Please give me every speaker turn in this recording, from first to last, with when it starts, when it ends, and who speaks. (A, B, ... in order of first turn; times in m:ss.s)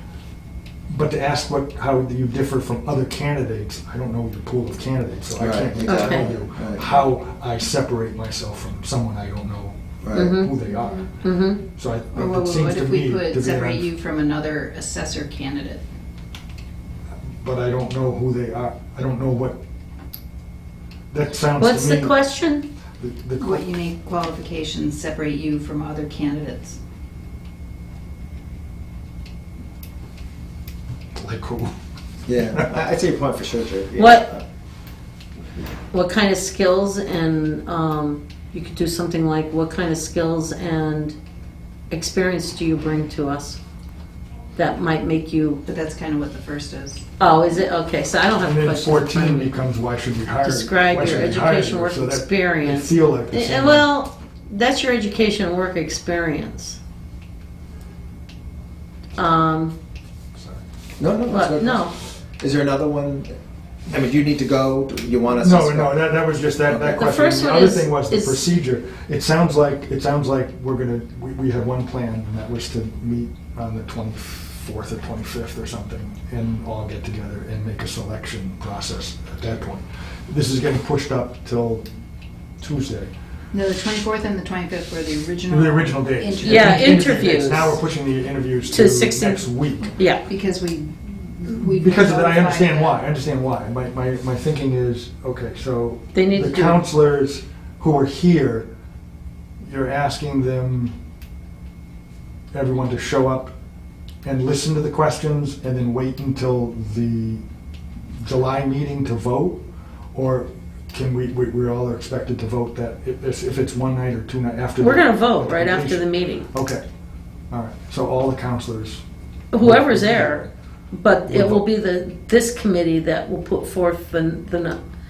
0:00.9-0:11.1 A
0:05.4-0:06.9 B
0:05.8-0:06.3 C
0:10.0-0:10.4 B
0:10.1-0:10.6 C
0:11.2-0:11.6 C
0:11.8-0:13.9 A
0:12.1-0:15.8 D
0:17.4-0:19.6 A
0:21.1-0:22.2 A
0:21.6-0:22.7 C
0:23.0-0:23.7 A
0:23.4-0:26.8 D
0:31.2-0:31.7 A
0:32.3-0:34.4 B
0:32.5-0:32.8 A
0:34.0-0:34.2 C
0:35.9-0:41.1 C
0:41.9-0:43.6 C
0:44.6-0:45.6 C
0:45.7-0:47.0 D
0:47.2-0:49.5 C
0:48.4-0:53.9 A
0:50.4-0:56.8 C
0:51.0-0:51.2 B
0:59.2-0:59.8 C
1:00.4-1:00.6 A
1:01.0-1:03.3 B
1:01.3-1:01.9 C
1:03.9-1:06.0 B
1:05.4-1:21.9 A
1:06.8-1:08.4 C
1:22.6-1:23.1 A
1:23.5-1:27.2 D
1:25.5-1:30.0 A
1:26.4-1:27.8 C
1:28.7-1:30.2 C
1:30.3-1:33.0 D
1:31.6-1:38.7 A
1:36.1-1:36.8 C
1:39.6-1:41.0 A
1:42.5-1:43.5 A
1:44.2-1:47.4 A
1:48.2-1:49.6 A
1:50.1-1:56.8 A
1:54.8-1:56.5 C
1:57.5-1:59.0 A
1:59.5-2:04.8 C
1:59.6-2:00.5 A
2:01.3-2:01.6 A